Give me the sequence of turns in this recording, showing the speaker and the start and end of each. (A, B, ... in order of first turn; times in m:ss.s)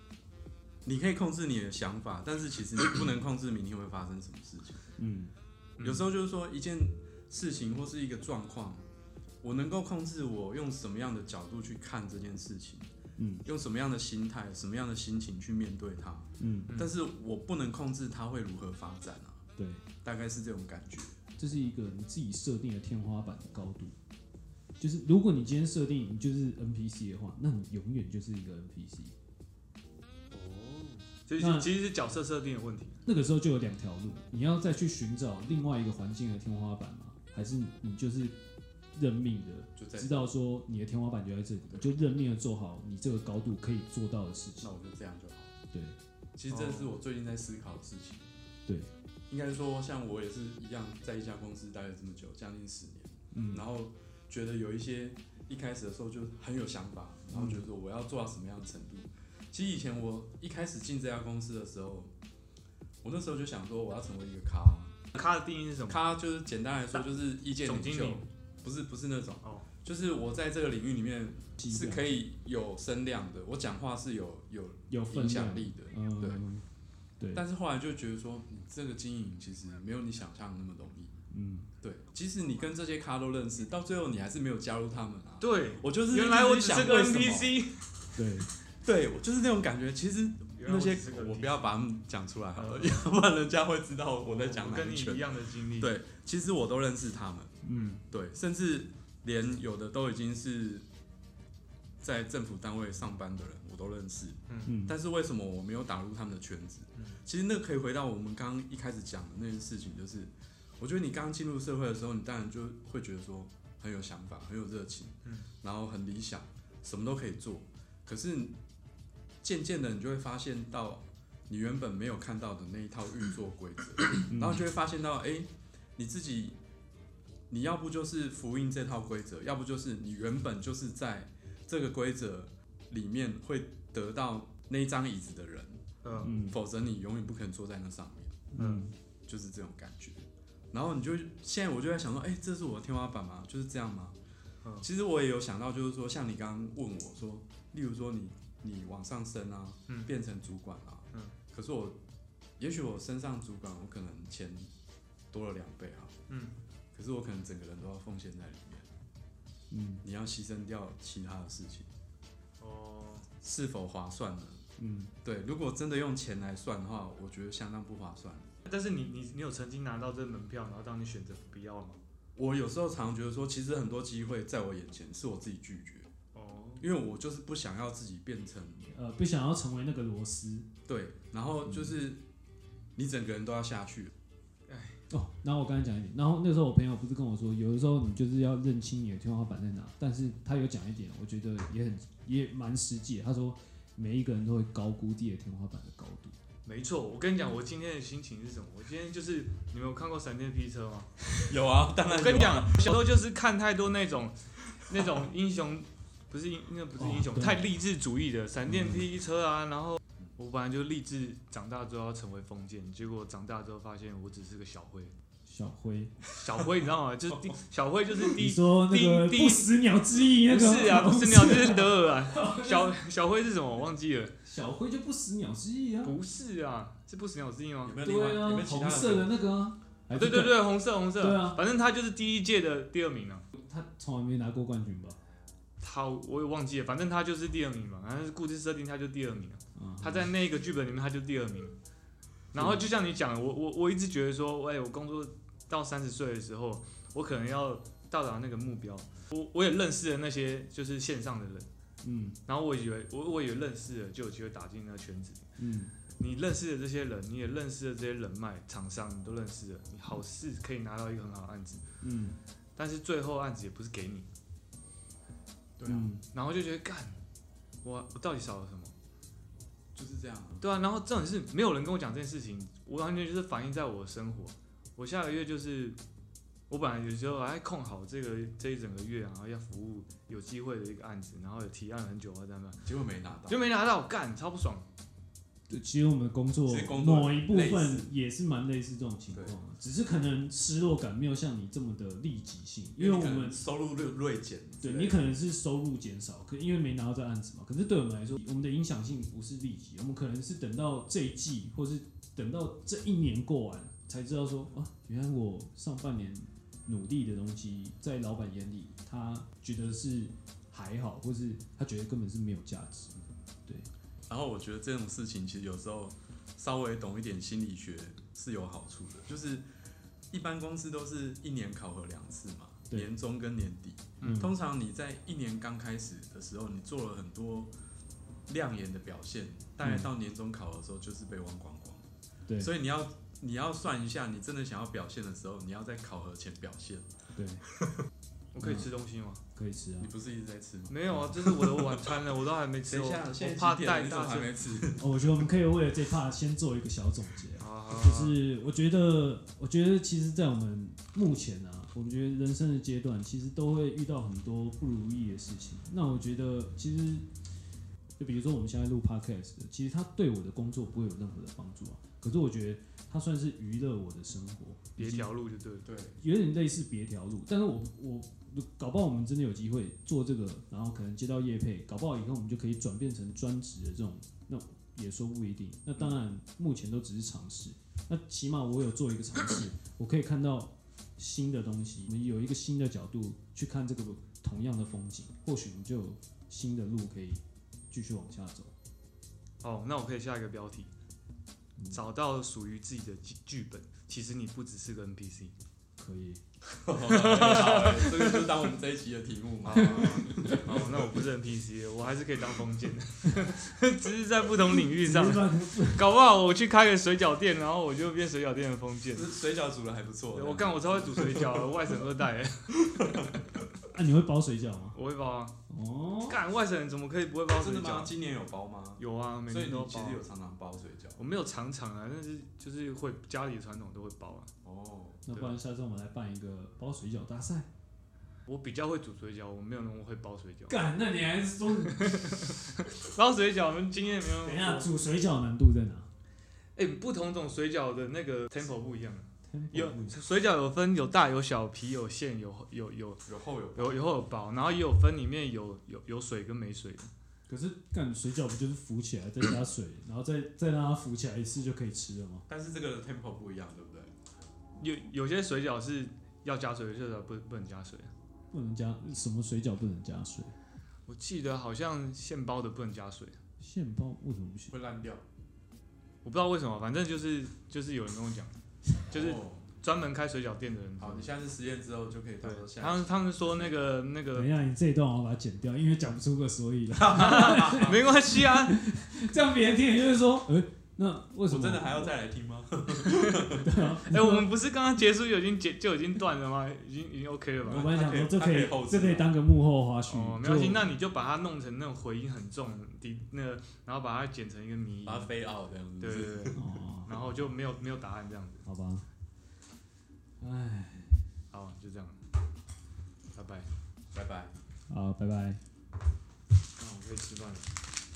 0:00.8-0:04.8 A
0:05.0-0:05.3 B
0:05.8-0:06.1 C
0:05.8-0:08.8 A
0:09.4-0:12.9 A
0:13.2-0:13.4 B
0:13.4-0:19.4 A
0:16.4-0:16.7 B
0:16.7-0:16.9 C
0:19.6-0:19.8 B
0:20.0-0:21.2 A
0:21.4-0:23.9 B
0:24.8-0:29.1 B
0:30.3-0:33.0 C
0:31.4-0:31.7 B
0:33.0-0:38.4 B
0:38.9-0:44.7 B
0:39.8-0:40.3 A
0:44.6-0:45.5 A
0:45.7-0:46.0 B
0:46.4-0:48.3 A
0:46.5-0:46.9 C
0:49.3-1:02.1 A
0:53.3-0:53.6 B
0:57.3-0:57.6 B
1:03.0-1:05.0 A
1:05.1-1:06.0 C
1:05.9-1:16.4 A
1:07.6-1:08.2 C
1:09.4-1:09.7 C
1:11.6-1:12.2 B
1:14.9-1:16.6 B
1:17.3-1:21.2 A
1:21.3-1:21.7 B
1:21.8-1:27.6 A
1:25.4-1:28.0 C
1:28.1-1:28.5 B
1:28.8-1:37.6 A
1:30.6-1:31.7 C
1:32.6-1:33.0 C
1:34.2-1:35.9 C
1:37.6-1:38.0 B
1:37.7-1:38.0 C
1:38.1-1:40.8 A
1:42.0-1:58.6 A
1:44.5-1:44.8 C
1:44.6-1:45.0 B
1:59.4-2:06.6 A
2:04.3-2:04.6 B
2:07.5-2:15.8 A
2:16.0-2:16.4 C
2:16.2-2:16.6 B
2:16.4-2:18.4 A
2:18.5-2:18.9 B
2:18.6-2:18.8 C
2:19.3-2:24.2 A
2:24.8-2:32.0 A
2:32.6-2:34.7 A
2:35.3-2:36.2 A
2:36.3-2:36.5 C
2:36.9-2:38.9 A
2:39.7-2:40.0 B
2:40.0-2:41.9 A
2:42.6-2:43.3 C
2:43.4-2:44.6 A
2:44.8-2:45.1 B
2:45.2-2:48.5 A
2:48.6-2:52.0 C
2:52.4-2:56.1 A
2:56.3-2:56.9 C
2:56.8-2:58.9 A
2:58.9-3:00.7 B
3:00.8-3:02.2 A
3:03.0-3:04.1 A
3:04.7-3:05.0 C
3:05.1-3:16.4 B
3:16.6-3:35.1 C
3:21.4-3:23.0 A
3:27.0-3:27.6 B
3:28.7-3:29.0 B
3:35.4-3:36.3 B
3:36.3-3:39.7 C
3:38.2-3:42.9 B
3:40.5-3:44.4 C
3:44.4-3:46.1 B
3:46.0-3:48.0 C
3:47.8-3:49.3 A
3:48.0-3:51.6 B
3:50.1-3:53.5 C
3:53.5-3:55.2 B
3:55.8-4:01.8 C
3:59.8-4:00.2 B
4:02.5-4:11.7 C
4:02.6-4:02.8 B
4:12.0-4:12.4 B
4:12.5-4:15.5 C
4:15.6-4:15.9 B
4:16.1-4:21.9 C
4:22.0-4:22.4 B
4:22.8-4:24.3 C
4:25.8-4:26.1 A
4:25.9-4:26.2 B
4:26.3-4:27.2 C
4:27.8-4:28.9 C
4:29.9-4:30.7 A
4:30.6-4:36.0 C
4:36.7-4:42.8 C
4:42.8-4:43.7 A
4:43.5-4:44.8 C
4:45.7-4:53.6 B
4:46.6-4:48.1 A
4:53.0-4:55.3 A
4:54.8-5:13.1 B
5:14.3-5:19.7 A
5:20.3-5:27.7 A
5:24.2-5:24.4 C
5:24.2-5:24.5 B
5:28.5-5:37.1 A
5:29.8-5:30.1 B
5:37.3-5:37.6 B
5:38.5-5:39.4 C
5:38.6-5:38.9 B
5:39.5-5:40.1 B
5:40.0-5:42.1 A
5:40.9-5:44.8 C
5:42.9-5:45.2 A
5:45.0-5:57.3 B
5:47.6-5:48.4 C
5:58.2-6:05.3 B
6:05.0-6:05.9 C
6:05.8-6:06.2 A
6:06.2-6:28.7 B
6:29.6-6:30.9 C
6:31.9-6:35.6 C
6:36.0-6:36.4 B
6:36.6-6:40.9 A
6:37.0-6:38.6 C
6:39.6-6:49.3 C
6:39.8-6:40.7 B
6:45.0-6:46.0 B
6:49.1-6:51.7 A
6:50.3-6:53.0 C
6:52.9-6:53.4 A
6:53.9-6:55.0 B
6:54.9-6:55.6 C
6:55.7-6:56.4 B
6:56.3-6:58.1 C
6:57.5-7:01.3 A
6:59.0-7:00.2 C
7:01.2-7:04.5 C
7:04.6-7:05.6 A
7:05.2-7:07.7 B
7:08.4-7:10.8 C
7:10.7-7:12.2 B
7:11.8-7:14.9 C
7:14.4-7:16.1 B
7:16.8-7:27.1 C
7:19.5-7:20.1 B
7:23.2-7:24.0 A
7:27.5-7:32.4 B
7:32.5-7:34.1 A
7:34.8-7:38.1 C
7:38.5-7:40.5 B
7:41.1-7:43.4 C
7:43.6-7:44.7 B
7:44.7-7:45.2 A
7:46.2-7:48.6 C
7:49.1-7:51.3 C
7:49.1-7:49.7 A
7:51.0-7:53.8 A
7:52.4-7:54.5 C
7:54.3-8:02.1 B
7:57.0-7:58.0 A
7:57.1-7:58.8 C
8:01.5-8:03.7 A
8:03.0-8:03.5 C
8:03.5-8:04.4 B
8:04.0-8:08.1 C
8:07.6-8:09.3 A
8:07.7-8:10.9 B
8:10.1-8:15.3 C
8:15.0-8:16.6 A
8:16.0-8:18.6 C
8:16.5-8:17.2 B
8:18.6-8:19.0 B
8:20.4-8:21.2 B
8:21.5-8:22.2 C
8:23.3-8:23.7 C
8:24.1-8:24.5 A
8:24.9-8:25.6 B
8:26.8-8:27.7 C